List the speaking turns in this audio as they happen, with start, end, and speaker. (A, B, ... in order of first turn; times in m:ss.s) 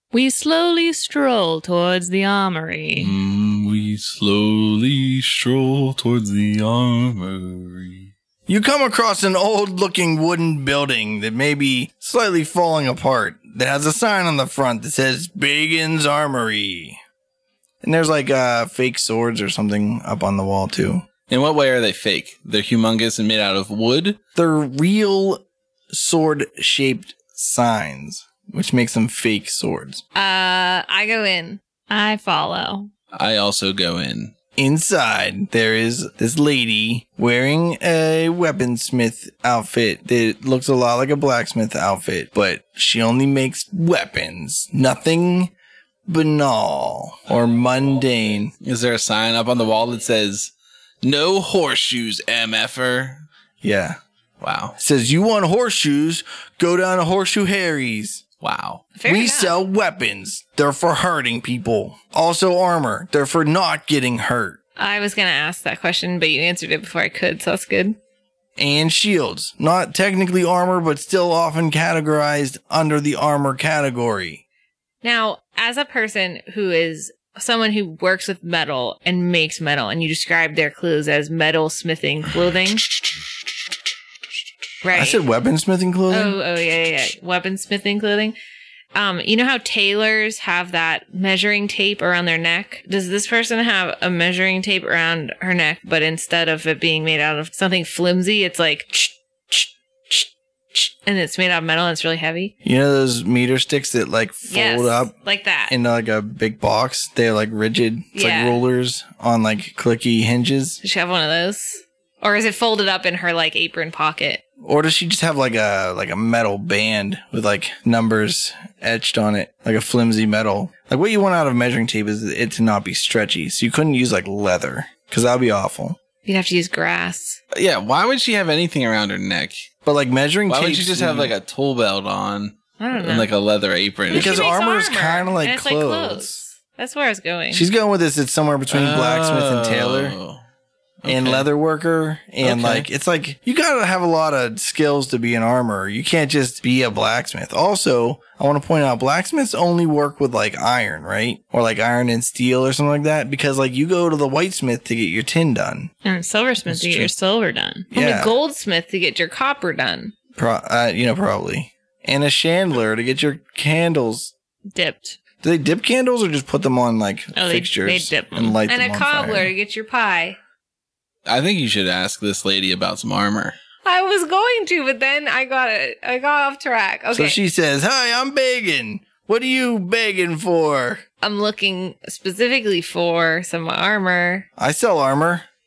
0:00.1-0:03.1 A
0:03.0-0:08.1 B
0:08.5-0:17.0 C
0:17.8-0:21.0 C
0:21.3-0:24.2 B
0:24.4-0:30.0 C
0:30.1-0:31.6 D
0:31.9-0:32.9 A
0:33.1-0:34.3 B
0:34.6-0:45.5 C
0:46.1-0:48.5 C
0:48.6-0:53.2 B
0:53.6-0:54.0 C
0:54.4-0:54.8 B
0:54.8-0:58.2 C
0:58.4-0:58.8 B
0:59.0-0:59.6 D
0:59.0-1:04.6 C
1:04.8-1:08.0 D
1:08.6-1:14.4 C
1:15.0-1:22.9 D
1:24.8-1:25.2 D
1:24.9-1:26.4 C
1:26.1-1:28.4 D
1:28.9-1:42.6 D
1:42.6-1:45.1 C
1:44.5-1:45.7 D
1:45.7-1:50.8 C
1:48.1-1:48.6 D
1:50.8-1:54.4 D
1:54.6-2:06.0 C
2:06.2-2:07.4 D
2:07.5-2:09.7 B
2:09.8-2:11.4 C
2:10.5-2:14.4 B
2:12.8-2:13.3 D
2:14.1-2:15.3 A
2:14.1-2:16.4 C
2:15.4-2:17.7 D
2:17.5-2:20.2 C
2:18.7-2:20.4 B
2:21.0-2:21.5 B
2:21.0-2:35.9 C
2:22.4-2:22.9 B
2:36.0-2:37.9 A
2:36.7-2:37.1 C
2:37.9-2:38.3 C
2:38.0-2:40.1 D
2:40.4-2:44.3 C
2:44.7-2:45.2 A
2:45.4-2:49.5 C
2:47.4-2:48.6 A
2:48.7-2:50.4 D
2:51.3-2:53.6 B
2:53.8-2:57.4 D
2:57.1-3:01.0 C
3:01.2-3:04.5 D
3:04.6-3:05.4 C